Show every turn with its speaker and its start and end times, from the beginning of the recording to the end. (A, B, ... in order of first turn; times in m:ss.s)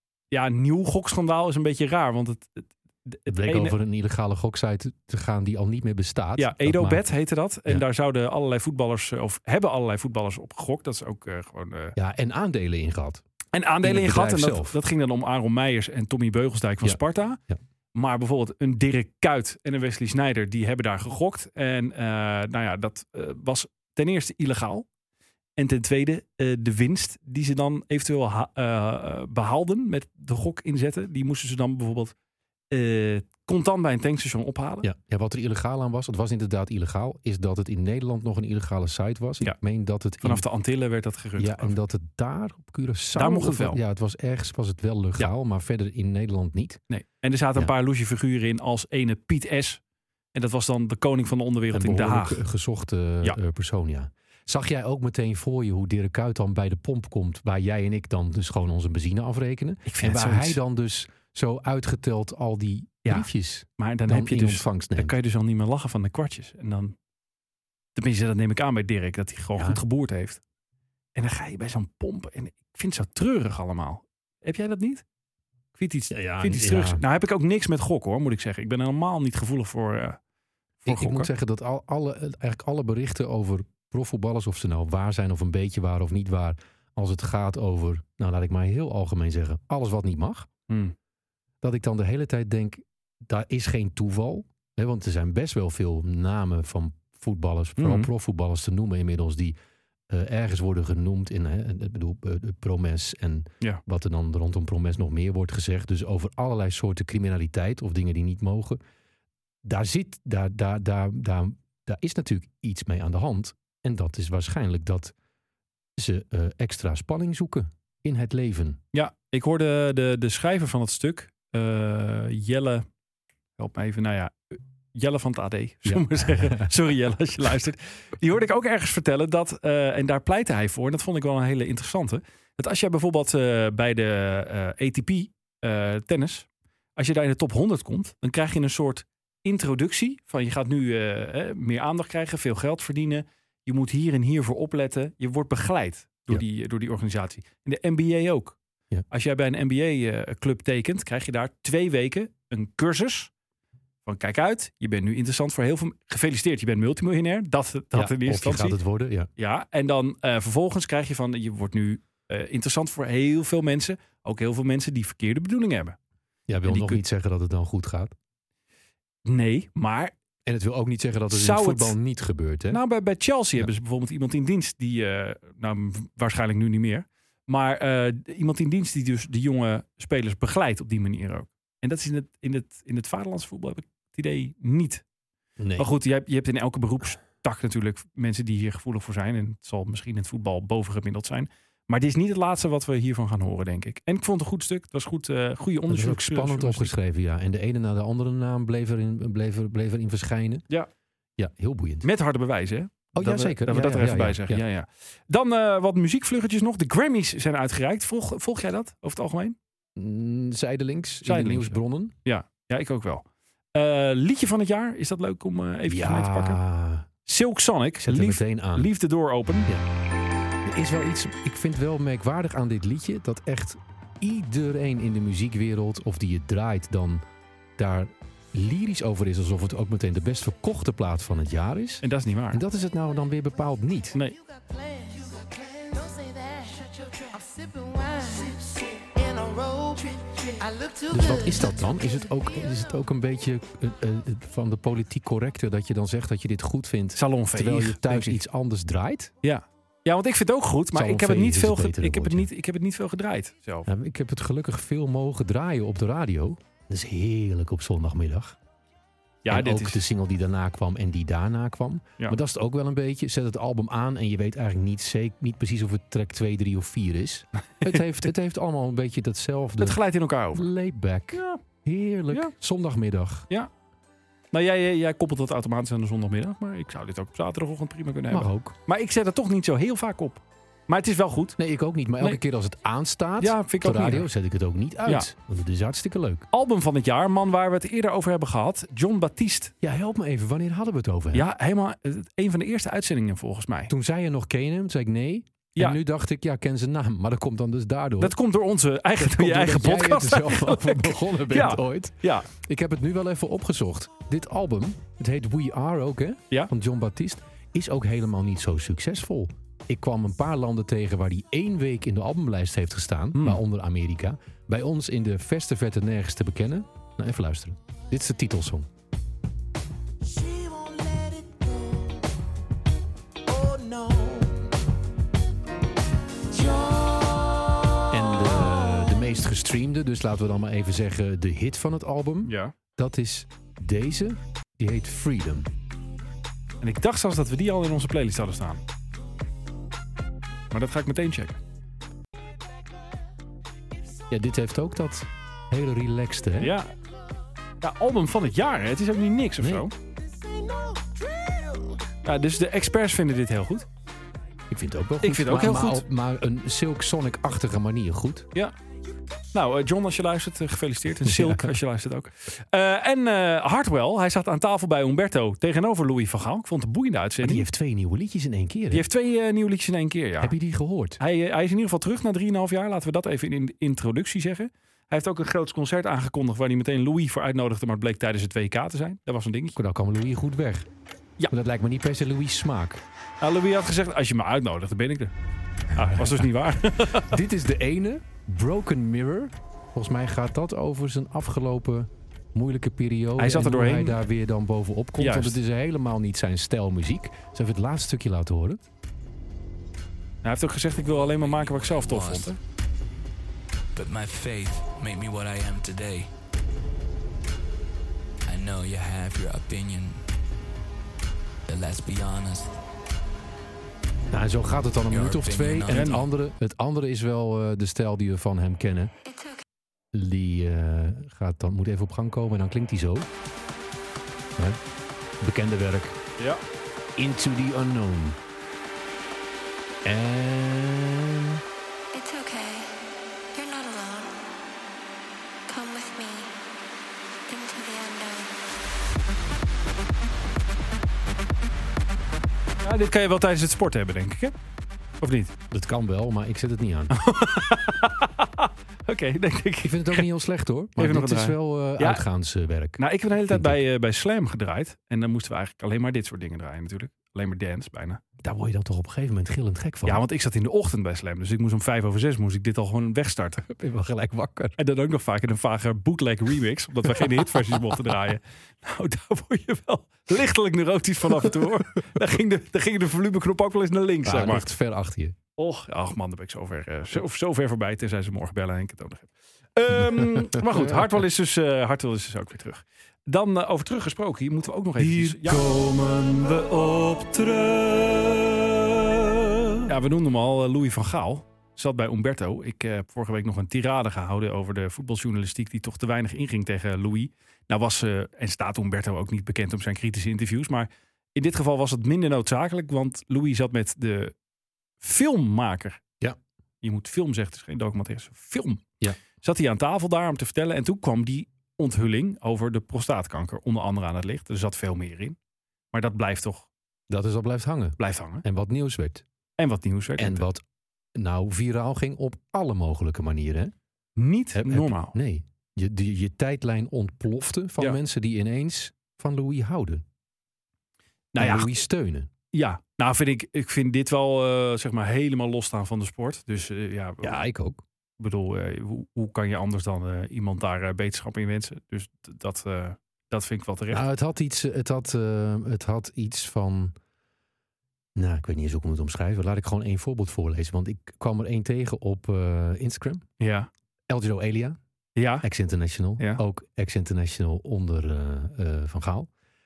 0:00.3-0:03.7 A
0:03.3-0:07.0 B
0:06.4-0:12.0 A
0:12.0-0:13.2 B
0:13.5-0:17.4 A
0:13.8-0:14.8 B
0:16.8-0:17.6 B
0:17.9-0:24.8 A
0:25.6-0:32.1 A
0:32.7-0:34.9 A
0:34.8-0:40.4 B
0:40.2-0:41.8 A
0:41.4-0:46.8 B
0:43.2-0:43.8 A
0:46.9-0:49.8 A
0:50.3-0:52.4 A
0:51.7-1:05.2 B
0:59.8-1:00.6 A
1:03.0-1:07.0 A
1:07.9-1:10.4 A
1:11.1-1:15.0 A
1:15.8-1:20.2 A
1:16.1-1:17.0 B
1:20.8-1:21.3 A
1:20.8-1:30.5 B
1:30.7-1:30.9 A
1:31.6-1:39.6 B
1:37.8-1:38.1 A
1:40.1-1:48.8 B
1:49.6-1:55.1 B
1:56.0-1:58.8 B
1:58.9-2:02.8 A
2:03.6-2:28.6 A
2:05.8-2:06.7 B
2:29.1-2:33.3 A
2:34.0-2:38.8 A
2:37.9-2:39.3 B
2:39.4-2:46.0 A
2:46.5-2:48.1 B
2:46.6-2:47.0 A
2:49.2-2:50.1 A
2:50.4-2:52.8 B
2:51.3-2:52.0 A
2:52.7-3:05.0 A
3:05.6-3:05.9 B
3:05.8-3:16.9 A
3:15.9-3:20.6 B
3:21.4-3:22.1 B
3:22.0-3:29.6 A
3:23.1-3:24.6 B
3:30.0-3:32.1 B
3:31.2-3:36.6 A
3:35.9-3:37.1 B
3:37.3-3:39.7 A
3:38.0-3:38.9 B
3:40.6-3:47.2 B
3:47.8-3:54.2 B
3:52.0-3:52.6 A
3:54.4-4:01.9 C
4:01.1-4:09.3 B
4:07.1-4:08.4 A
4:09.4-4:13.9 A
4:10.9-4:12.5 B
4:13.8-4:18.6 B
4:19.4-4:20.0 A
4:19.5-4:30.0 B
4:29.8-4:30.6 A
4:30.5-4:33.5 B
4:31.3-4:31.6 A
4:34.5-4:41.6 A
4:38.3-4:38.7 B
4:41.6-4:46.5 B
4:43.4-4:44.3 A
4:46.5-4:49.7 A
4:49.8-4:51.5 B
4:51.3-4:53.9 A
4:53.9-4:58.4 B
4:58.2-5:02.5 A
4:59.2-5:18.9 B
5:20.2-5:22.2 C
5:23.5-5:24.7 C
5:26.5-5:29.1 C
5:28.1-5:35.7 B
5:32.4-5:32.7 A
5:36.8-5:38.8 A
5:40.7-5:41.6 A
5:44.3-5:46.7 B
5:46.6-5:46.9 A
5:47.8-5:49.9 A
5:49.6-5:49.8 B
5:50.3-5:52.0 C
5:52.2-5:53.8 A
5:54.7-5:58.5 B
5:55.2-5:56.0 A
5:59.5-6:07.7 A
6:01.2-6:01.7 B
6:07.4-6:09.1 B
6:08.9-6:10.5 A
6:10.4-6:11.2 B
6:11.2-6:19.8 A
6:19.8-6:20.9 B
6:21.5-6:23.0 B
6:23.4-6:25.3 A
6:25.9-6:27.3 A
6:26.0-6:26.5 B
6:27.1-6:38.8 B
6:33.4-6:34.2 A
6:35.2-6:35.6 A
6:40.4-6:42.6 A
6:41.3-6:42.5 D
6:43.9-6:46.3 D
6:48.5-6:50.2 D
6:51.7-6:52.7 D
6:54.3-6:59.1 B
6:55.1-6:56.2 D
6:55.9-6:56.2 A
6:59.2-6:59.6 E
7:00.1-7:03.3 B
7:05.4-7:06.2 B
7:07.2-7:08.4 B
7:10.0-7:11.6 B
7:12.1-7:13.0 E
7:13.5-7:14.3 E
7:15.7-7:16.5 E
7:17.5-7:18.6 E
7:22.8-7:24.5 A
7:25.2-7:25.5 A
7:25.7-7:27.1 B
7:27.1-7:30.3 A
7:29.8-7:33.8 B
7:31.0-7:32.2 A
7:33.0-7:38.2 A
7:38.4-7:40.2 B
7:40.0-7:43.6 A
7:43.6-7:44.8 B
7:44.8-7:54.7 A
7:54.2-7:55.4 B
7:55.6-8:07.8 A
7:59.9-8:01.1 B
8:05.0-8:06.2 B
8:09.8-8:24.3 A
8:25.0-8:26.0 A
8:26.8-8:28.9 A
8:29.4-8:35.4 A
8:35.9-8:36.7 A
8:37.1-8:39.2 B
8:38.0-8:38.4 A
8:39.6-8:40.5 A
8:40.2-8:40.6 B
8:41.1-8:43.7 B
8:44.2-8:45.1 A
8:44.5-8:50.0 B
8:51.3-8:51.7 A
8:51.4-8:52.3 B
8:52.5-8:57.4 A
8:57.2-8:57.8 B
8:58.2-9:04.0 A
9:03.9-9:06.9 B
9:08.2-9:13.2 B
9:13.4-9:13.7 A
9:14.1-9:14.8 B
9:15.2-9:15.4 A
9:15.4-9:19.3 B